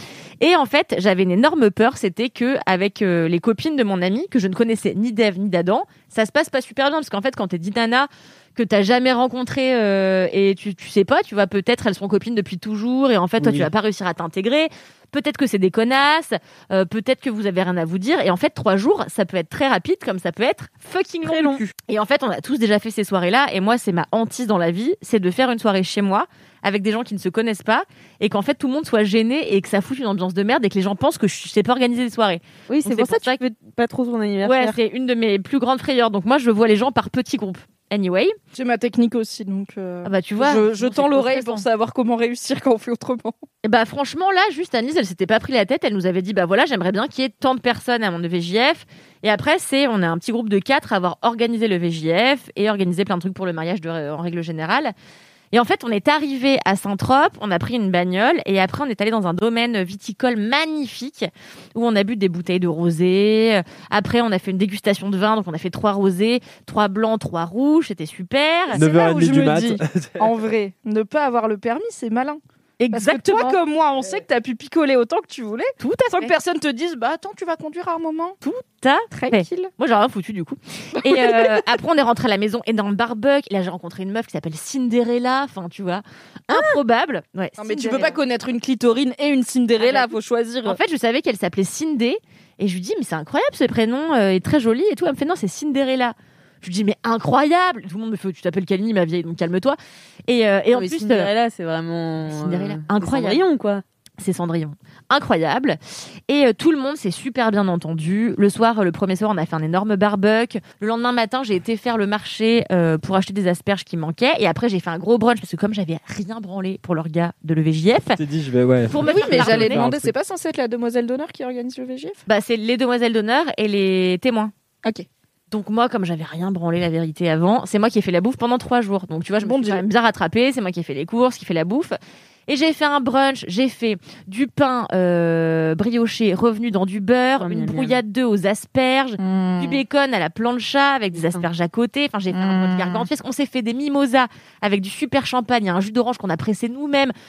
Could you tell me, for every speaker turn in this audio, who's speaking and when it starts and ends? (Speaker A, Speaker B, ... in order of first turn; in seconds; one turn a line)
Speaker A: 0.4-33.4
Speaker B: 13.4-13.7
Speaker C: 21.2-21.7
Speaker C: 32.7-34.8
Speaker A: 34.4-38.4
Speaker D: 38.5-43.4
Speaker A: 40.0-41.6
Speaker A: 43.6-54.9
Speaker A: 55.5-68.8
Speaker D: 68.7-72.4
Speaker B: 68.7-70.3
Speaker A: 72.8-73.6
Speaker D: 72.9-78.4
Speaker A: 75.8-76.3
Speaker A: 78.4-88.2
Speaker D: 79.1-79.7
Speaker D: 81.0-81.6
Speaker D: 87.6-90.8
Speaker A: 89.8-90.1
Speaker A: 90.7-99.8
Speaker A: 100.3-101.3
Speaker C: 100.7-103.8
Speaker A: 102.3-103.4
Speaker A: 104.2-105.8
Speaker A: 106.3-118.2
Speaker B: 118.2-120.2
Speaker A: 118.9-119.9
Speaker D: 119.0-122.2
Speaker A: 122.3-124.5
Speaker A: 125.5-132.0
Speaker D: 129.4-129.8
Speaker A: 132.5-147.1
Speaker C: 137.4-138.0
Speaker D: 139.2-139.8
Speaker C: 141.1-141.4
Speaker D: 142.3-143.1